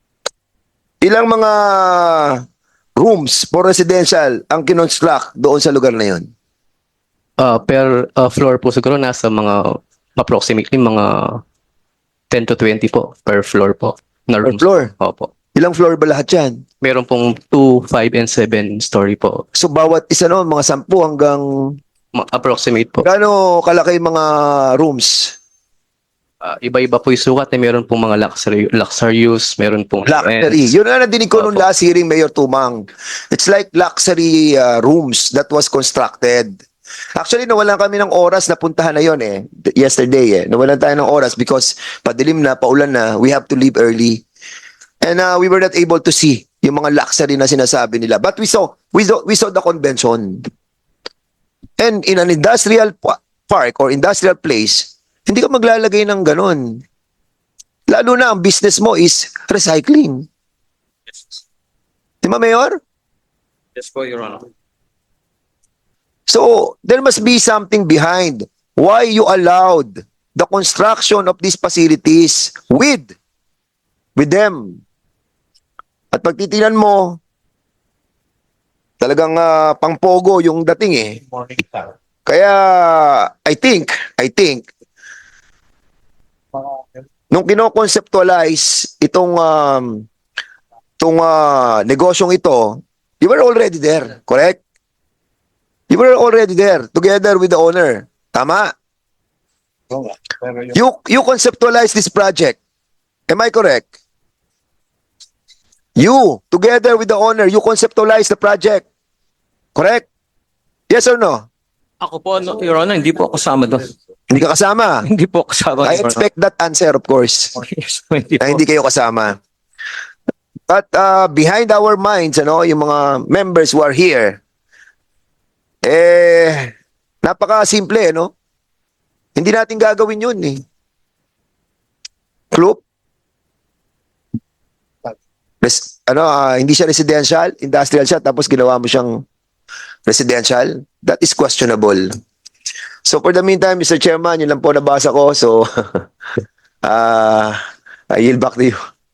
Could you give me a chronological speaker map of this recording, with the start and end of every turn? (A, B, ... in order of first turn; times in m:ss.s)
0:01.0-0:02.4 A
0:03.0-0:06.3 A
0:07.4-0:11.4 B
0:12.3-0:15.3 B
0:14.4-0:14.9 A
0:15.5-0:16.6 A
0:16.8-0:19.4 B
0:19.5-0:21.8 A
0:22.1-0:23.1 B
0:23.0-0:25.3 A
0:26.4-0:30.7 B
0:30.0-0:36.6 A
0:31.3-0:31.7 B
0:37.2-0:44.2 A
0:45.0-0:50.4 A
0:51.8-0:56.8 A
0:57.9-1:00.2 A
1:01.1-1:01.3 C
1:02.2-1:02.8 A
1:03.8-1:04.4 C
1:06.3-1:13.1 A
1:14.2-1:14.8 A
1:16.1-1:17.2 A
1:19.0-1:21.6 A
1:22.2-1:24.6 A
1:27.3-1:30.0 A
1:31.0-1:34.6 A
1:35.9-1:38.7 A
1:40.7-1:42.6 A
1:43.3-1:43.9 A
1:46.0-1:48.8 A
1:49.8-1:50.0 A
1:50.9-1:51.4 A
1:52.0-1:53.9 C
1:54.3-1:55.0 A
1:55.0-1:56.2 C
1:55.8-1:57.5 A
1:57.6-1:58.6 C
1:58.4-1:59.4 A
2:00.7-2:04.4 A
2:05.8-2:06.7 A
2:07.2-2:08.3 A
2:09.4-2:10.6 A
2:12.5-2:12.8 A
2:15.6-2:19.2 A
2:20.0-2:22.1 A
2:23.0-2:26.0 A
2:26.8-2:27.6 A
2:28.1-2:28.8 A